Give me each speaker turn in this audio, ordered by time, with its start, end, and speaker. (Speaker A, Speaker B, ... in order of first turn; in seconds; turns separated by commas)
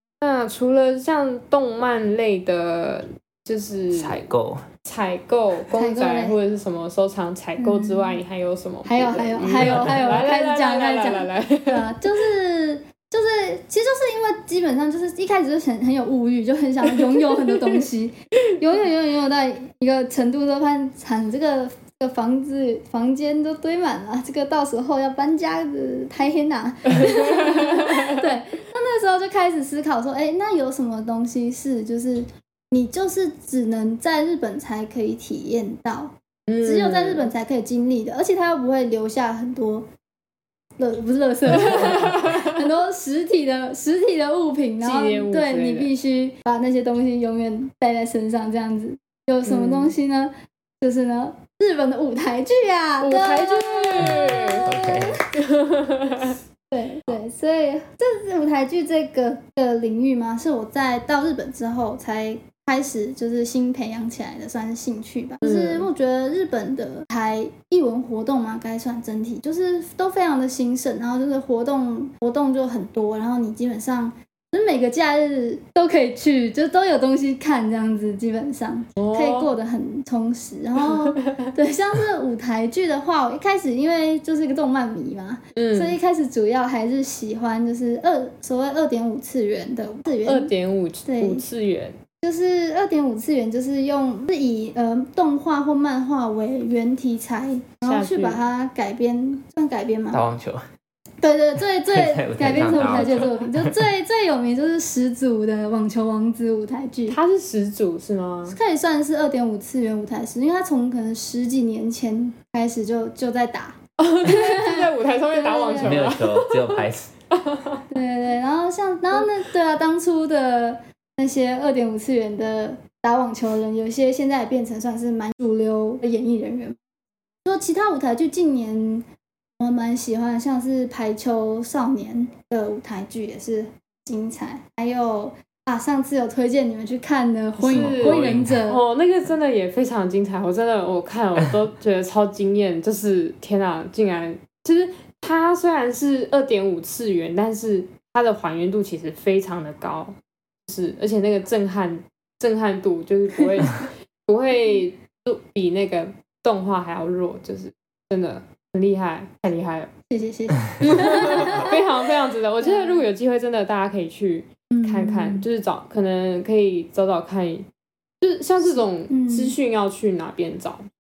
Speaker A: 0.2-4.3, Speaker B: 3.9-4.7, Speaker A: 4.8-12.0, Speaker C: 5.7-6.4, Speaker C: 7.6-8.2, Speaker C: 8.8-39.9, Speaker A: 17.1-17.8, Speaker A: 26.9-28.2, Speaker A: 36.5-37.3, Speaker C: 40.8-55.2, Speaker A: 41.6-42.5, Speaker A: 44.8-45.9, Speaker A: 49.4-49.9, Speaker A: 53.0-54.7, Speaker B: 54.0-55.2, Speaker A: 55.3-56.4, Speaker C: 56.7-90.5, Speaker A: 65.4-65.9, Speaker A: 79.0-79.5, Speaker A: 80.8-81.5, Speaker A: 85.5-86.0, Speaker A: 90.2-92.0, Speaker C: 91.0-91.5, Speaker C: 92.2-100.2, Speaker A: 97.8-98.4, Speaker B: 100.1-100.6, Speaker C: 101.2-107.2, Speaker B: 101.9-103.8, Speaker A: 107.1-108.6, Speaker C: 108.5-116.1, Speaker A: 114.0-117.8, Speaker B: 115.8-117.1, Speaker C: 117.9-126.8, Speaker C: 127.4-129.1, Speaker C: 129.6-138.8, Speaker A: 137.6-150.2, Speaker B: 137.7-138.6, Speaker A: 150.7-159.9, Speaker C: 160.1-161.9, Speaker A: 160.8-167.7, Speaker C: 162.6-163.1, Speaker C: 164.7-165.4, Speaker A: 168.2-170.9, Speaker C: 168.7-169.6